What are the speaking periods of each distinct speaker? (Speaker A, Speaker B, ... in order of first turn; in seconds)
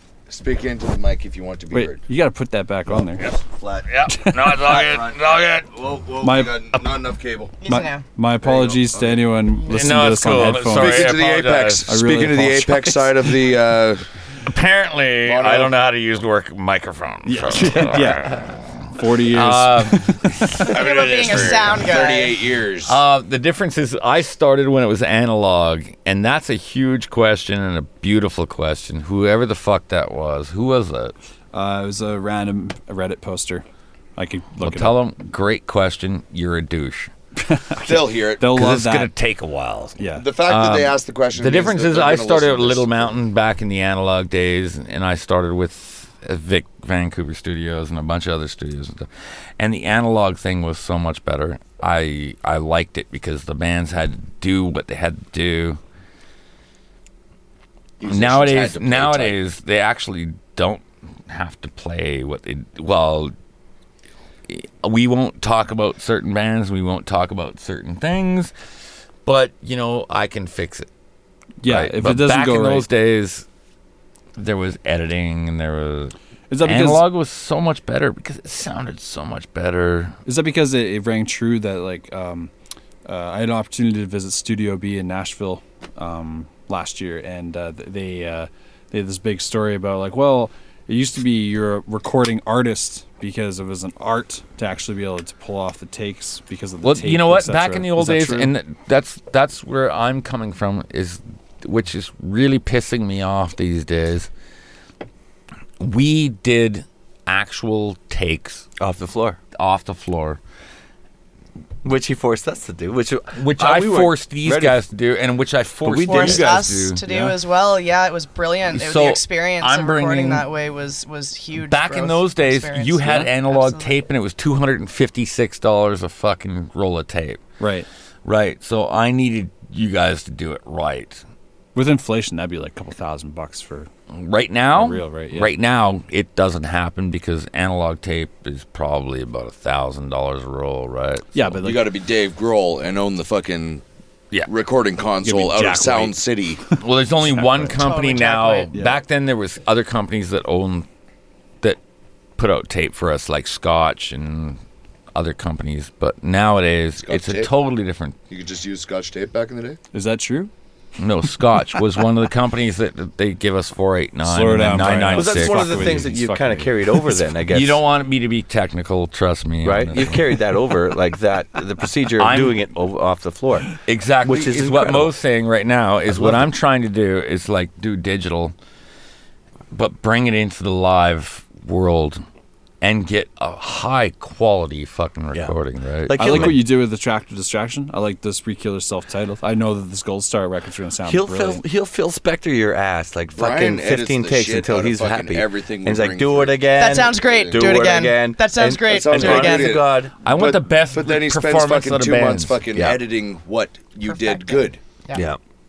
Speaker A: 0.3-2.0, 3.2-3.9, 4.5-7.5, 8.4-9.2, 10.6-14.0, 15.2-15.7, 20.7-23.0, 37.8-38.5, 40.1-43.2, 58.0-59.4, 141.6-143.8, 144.5-146.6, 157.0-157.5, 158.3-159.8, 193.3-197.9, 198.9-204.8
Speaker B: 1.7-3.3, 4.1-4.5, 6.2-6.6, 7.7-11.2, 11.9-13.5, 17.2-20.5, 31.5-33.6, 34.1-35.0, 37.4-39.1, 40.0-40.2, 71.6-72.9, 76.5-77.0, 80.2-82.5, 83.0-98.5, 127.6-127.9, 131.7-133.9, 134.7-135.5, 141.3-141.9, 145.2-146.2, 147.3-147.8, 148.7-149.0, 159.9-160.5, 164.2-167.2, 186.2-191.6
Speaker C: 3.8-5.7, 9.7-11.9, 14.4-21.8, 22.8-31.1, 34.6-37.1, 38.4-55.8, 58.0-63.3, 64.5-68.5, 69.2-70.9, 71.6-73.5, 74.3-80.2, 96.8-104.3, 105.8-108.7, 109.5-110.4, 113.3-117.3, 118.7-120.5, 121.5-127.4, 128.2-131.2, 134.1-141.5, 146.8-150.9, 152.4-154.6, 155.1-158.2, 161.0-165.9, 167.5-170.4, 172.2-172.6, 173.8-178.5, 179.7-182.2, 182.8-186.6, 200.2-202.6
Speaker D: 7.6-8.0, 20.6-22.4, 116.0-124.0, 147.7-148.7, 196.8-199.8, 204.0-205.2
Speaker E: 108.8-109.4, 111.8-114.8, 115.8-116.6, 165.1-167.8, 169.6-175.1, 176.1-176.4, 186.1-186.6, 191.0-200.1, 202.7-203.0, 205.1-205.4